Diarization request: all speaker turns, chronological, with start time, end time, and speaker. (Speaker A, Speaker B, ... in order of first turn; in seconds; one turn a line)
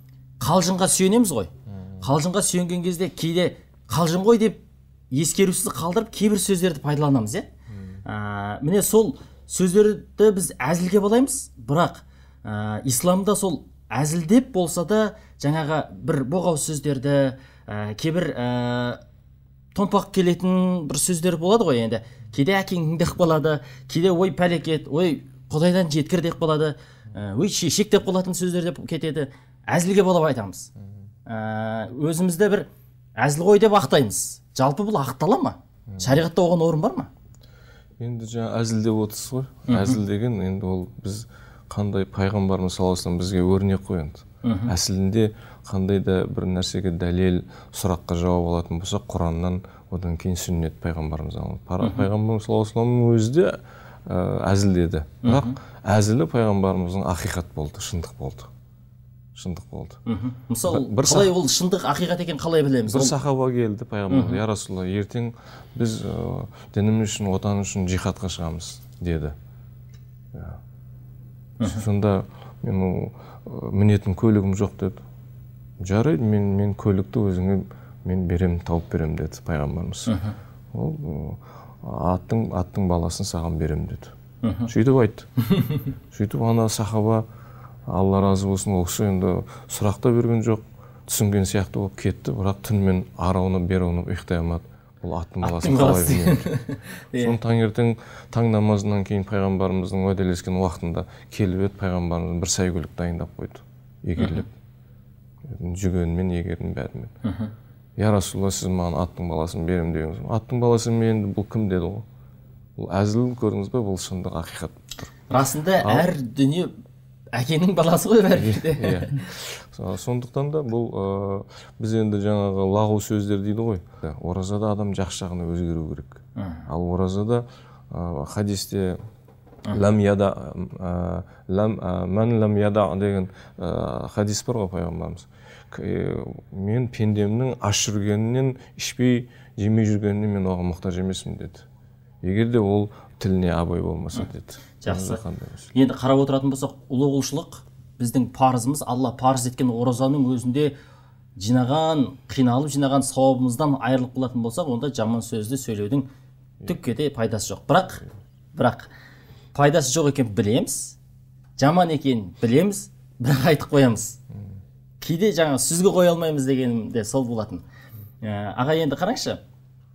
Speaker A: 0.4-7.5
Speaker B: 1.7-2.0
Speaker B: 7.7-8.0
Speaker A: 8.0-19.0
Speaker A: 19.7-30.7
Speaker A: 31.2-37.1
Speaker B: 38.0-58.5
Speaker A: 39.7-40.0
Speaker A: 44.4-44.7
Speaker A: 51.8-52.1
Speaker A: 55.2-55.5
Speaker B: 59.3-60.0
Speaker A: 60.0-63.1
Speaker B: 60.6-61.3
Speaker B: 62.9-69.3
Speaker A: 64.1-64.4
Speaker B: 70.3-70.6
Speaker B: 71.6-75.0
Speaker B: 75.8-80.1
Speaker A: 80.1-80.3
Speaker B: 80.7-84.1
Speaker A: 84.4-84.7
Speaker B: 84.7-85.3
Speaker A: 85.5-85.8
Speaker B: 86.1-87.2
Speaker B: 87.9-96.5
Speaker A: 95.4-97.4
Speaker B: 97.2-104.5
Speaker A: 104.2-104.5
Speaker B: 105.4-107.1
Speaker A: 107.2-107.5
Speaker B: 108.0-112.0
Speaker B: 112.8-115.1
Speaker A: 115.3-116.7
Speaker B: 115.8-116.1
Speaker A: 117.3-119.2
Speaker B: 118.3-129.0
Speaker A: 126.3-126.7
Speaker B: 129.7-141.7
Speaker B: 142.2-145.7
Speaker A: 144.8-145.2
Speaker A: 145.7-150.7
Speaker A: 151.4-156.1
Speaker A: 156.6-158.0
Speaker A: 158.5-158.9
Speaker A: 159.5-161.0
Speaker A: 161.6-164.2
Speaker A: 165.0-167.6
Speaker A: 168.2-169.4